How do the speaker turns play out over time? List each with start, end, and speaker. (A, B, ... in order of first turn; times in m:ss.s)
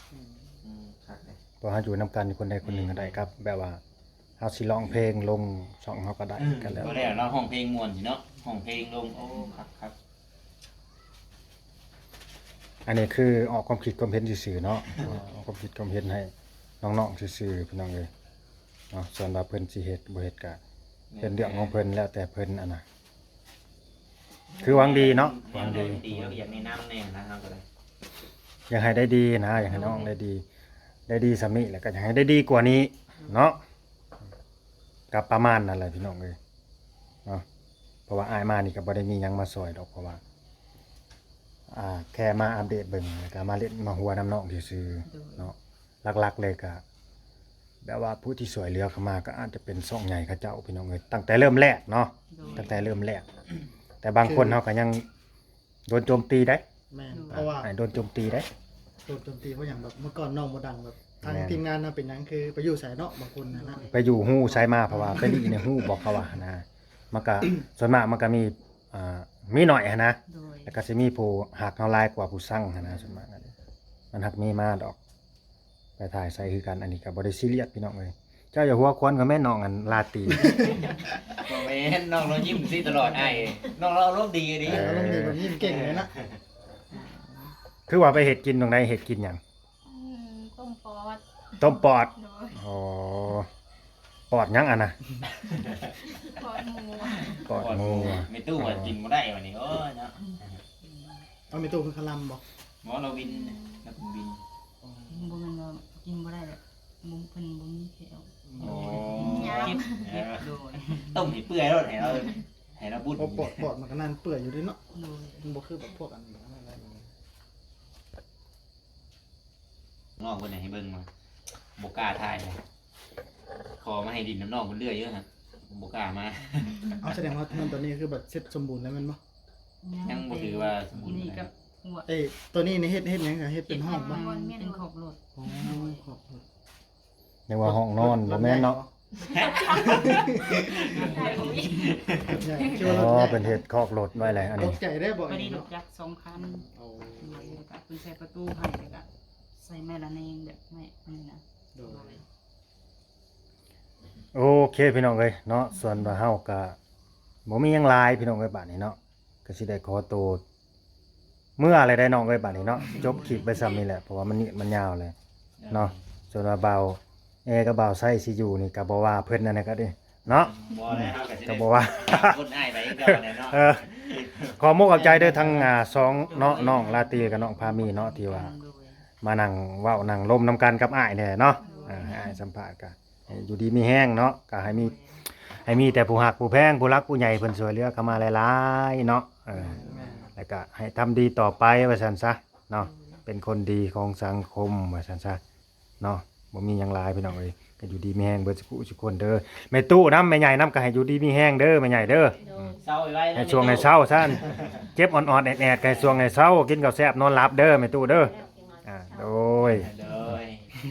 0:00.1-0:00.4 A
0:00.6-0:01.4 B
0:01.6-0:03.8 C
0:02.6-0:03.3 B
0:04.4-0:07.1 C
0:06.4-0:10.0 B
0:12.8-0:18.1 C
0:18.9-0:20.6 C
0:21.1-0:21.8 B
0:21.2-0:22.8 C
0:24.6-0:27.6 B
0:24.6-0:26.4 C
0:28.7-0:30.4 C
0:31.1-0:33.6 C
0:35.1-0:36.4 C
0:38.1-0:40.2 C
0:41.7-0:46.8 C
0:45.0-0:45.5 D
0:47.8-0:53.2 C
0:52.3-0:52.8 D
0:54.0-0:55.1 C
0:54.2-0:54.6 A
0:55.9-0:56.6 C
0:56.9-0:57.7 A
0:57.1-0:57.5 D
0:57.3-0:58.5 C
0:59.0-1:05.6 A
1:01.2-1:01.6 C
1:03.5-1:04.0 D
1:03.9-1:13.5 C
1:10.3-1:10.8 D
1:14.1-1:15.0 C
1:16.0-1:20.7 C
1:21.0-1:26.4 B
1:24.6-1:25.4 C
1:24.6-1:26.1 A
1:27.9-1:29.4 C
1:29.8-1:32.6 E
1:31.6-1:33.5 C
1:34.3-1:35.0 C
1:35.4-1:35.9 B
1:36.0-1:37.5 E
1:37.4-1:39.0 C
1:37.5-1:40.6 B
1:41.5-1:42.4 A
1:42.8-1:44.4 B
1:43.3-1:43.8 E
1:44.8-1:45.2 A
1:45.1-1:51.4 D
1:48.5-1:49.4 A
1:48.6-1:53.7 B
1:49.2-1:50.1 E
1:53.2-1:54.8 A
1:54.9-1:55.5 D
1:55.4-1:57.0 A
2:00.2-2:01.1 B
2:01.8-2:02.6 B
2:03.8-2:06.9 B
2:07.0-2:09.2 A
2:09.8-2:12.1 D
2:10.0-2:11.5 B
2:12.1-2:14.3 A
2:13.6-2:16.0 D
2:13.8-2:14.8 E
2:15.4-2:16.4 A
2:17.5-2:18.8 C
2:17.6-2:18.9 A
2:19.3-2:22.4 B
2:19.3-2:23.0 E
2:19.8-2:21.1 A
2:20.2-2:22.0 D
2:22.2-2:23.6 A
2:22.8-2:24.8 C
2:24.2-2:25.7 A
2:25.3-2:32.2 D
2:26.4-2:27.6 A
2:31.8-2:32.2 A
2:34.3-2:36.8 C
2:37.5-2:40.4 C
2:41.6-2:45.2 C
2:42.8-2:43.3 D
2:45.6-2:46.0 B
2:45.7-2:53.9 C
2:50.3-2:55.4 B
2:54.5-2:58.5 C
2:55.3-2:59.0 D
2:59.2-3:05.0 C
3:01.6-3:02.2 D
3:01.6-3:02.2 E
3:04.6-3:05.3 D
3:05.5-3:15.4 C
3:09.5-3:10.3 A
3:12.8-3:13.2 D
3:16.0-3:22.6 C
3:22.5-3:22.8 E
3:22.5-3:24.8 B
3:23.3-3:29.9 C
3:25.8-3:26.3 B
3:28.4-3:28.7 E
3:29.7-3:30.8 B